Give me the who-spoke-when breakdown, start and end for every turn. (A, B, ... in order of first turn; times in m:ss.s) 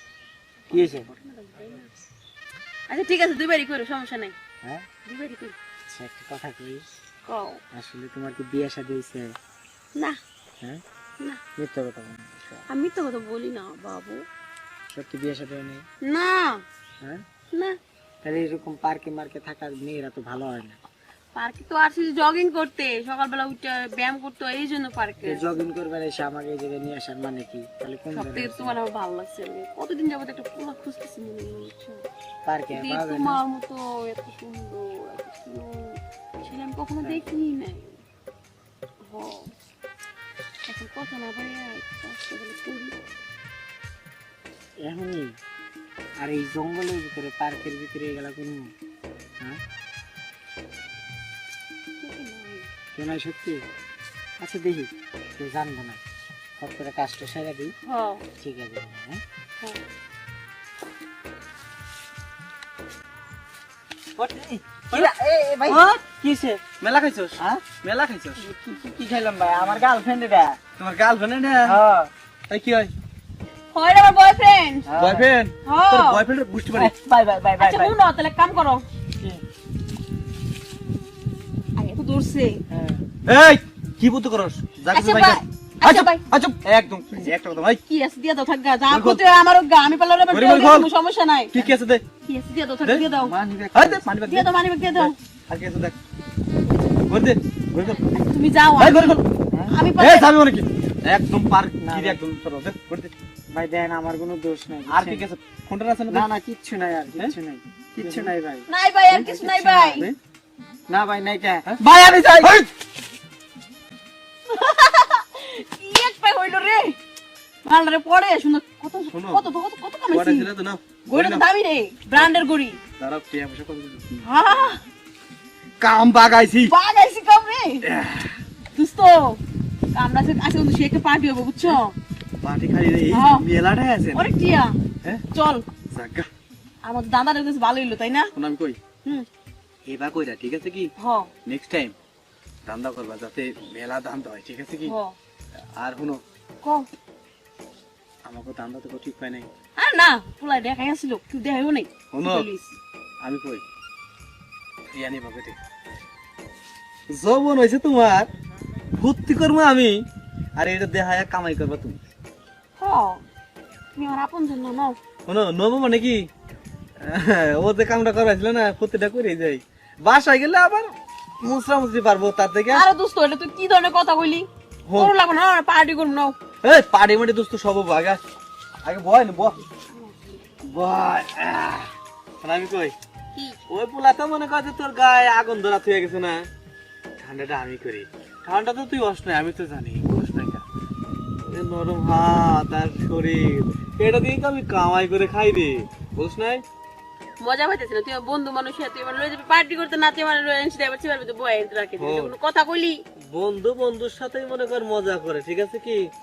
0:00.7-0:01.9 A
0:00.7-0:01.1 B
0:02.9-0:04.3 A
0:05.0-0:05.6 A
0:05.9-0:06.8 B
0:07.2-0:07.6 A
0:07.7-0:09.3 B
0:11.6-0:12.7 B
0:12.7-0:14.2 A
0:14.9-0:15.8 B
0:16.0-0:16.6 A
0:18.2-0:20.8 B
0:21.4-0:25.5 A
0:25.2-0:28.8 B
0:28.1-0:32.0 A
0:32.4-0:33.4 B
0:32.7-0:38.0 A
0:39.0-0:39.5 A
0:40.7-0:42.9 A
0:44.8-0:45.3 B
0:46.2-0:48.7 B
0:52.0-0:52.7 A
0:52.9-0:53.6 B
0:54.4-0:56.0 B
0:56.6-0:57.7 B
0:57.8-0:58.2 A
0:58.4-0:59.2 B
1:04.2-1:05.1 C
1:04.9-1:06.6 B
1:05.7-1:06.0 A
1:06.8-1:08.4 C
1:08.4-1:10.6 B
1:10.8-1:11.8 C
1:11.6-1:12.1 B
1:12.5-1:12.9 C
1:13.7-1:14.9 A
1:14.9-1:15.3 B
1:15.0-1:16.9 C
1:15.6-1:16.2 A
1:16.7-1:18.0 B
1:17.6-1:18.8 A
1:21.8-1:22.6 A
1:22.7-1:23.0 B
1:23.2-1:27.8 C
1:24.9-1:26.2 A
1:27.9-1:31.5 A
1:28.9-1:29.2 C
1:30.3-1:30.9 C
1:31.5-1:32.0 C
1:32.2-1:33.3 A
1:32.8-1:33.1 C
1:33.1-1:34.0 B
1:33.7-1:36.0 C
1:34.2-1:35.1 A
1:37.1-1:38.0 C
1:38.0-1:40.3 A
1:38.8-1:39.2 C
1:40.0-1:43.1 C
1:41.8-1:42.2 B
1:43.5-1:45.2 B
1:44.9-1:46.3 C
1:46.1-1:50.1 B
1:48.0-1:48.3 C
1:48.7-1:50.0 A
1:50.9-1:52.5 B
1:51.6-1:52.7 C
1:54.5-1:57.0 A
1:57.6-2:00.5 A
1:59.1-1:59.4 C
2:00.1-2:01.4 C
2:01.1-2:02.8 A
2:03.0-2:04.2 C
2:04.2-2:04.8 A
2:05.8-2:06.7 C
2:06.7-2:07.8 A
2:07.8-2:08.4 C
2:08.7-2:09.4 A
2:09.9-2:11.9 A
2:12.4-2:14.3 C
2:13.1-2:13.4 A
2:14.1-2:14.8 A
2:15.3-2:15.6 A
2:15.9-2:16.3 C
2:16.8-2:18.3 A
2:18.3-2:18.8 C
2:19.8-2:20.9 C
2:21.0-2:21.3 A
2:21.4-2:21.9 C
2:22.6-2:24.9 C
2:24.8-2:25.2 A
2:25.8-2:26.2 C
2:26.6-2:26.9 A
2:28.2-2:29.5 C
2:29.8-2:32.7 A
2:32.1-2:32.5 C
2:33.2-2:33.6 C
2:34.9-2:35.6 C
2:37.1-2:38.3 C
2:39.0-2:40.0 C
2:40.6-2:42.0 C
2:42.8-2:43.2 A
2:43.9-2:45.0 A
2:45.3-2:46.3 C
2:47.0-2:52.8 C
2:52.7-2:56.4 A
2:54.9-2:55.1 C
2:56.6-2:58.2 C
2:58.8-2:59.6 C
2:59.9-3:00.4 A
3:00.6-3:02.9 C
3:03.3-3:03.6 A
3:03.7-3:06.5 C
3:07.2-3:10.6 C
3:11.4-3:16.6 C
3:17.4-3:23.0 A
3:22.0-3:22.3 C
3:23.2-3:26.1 C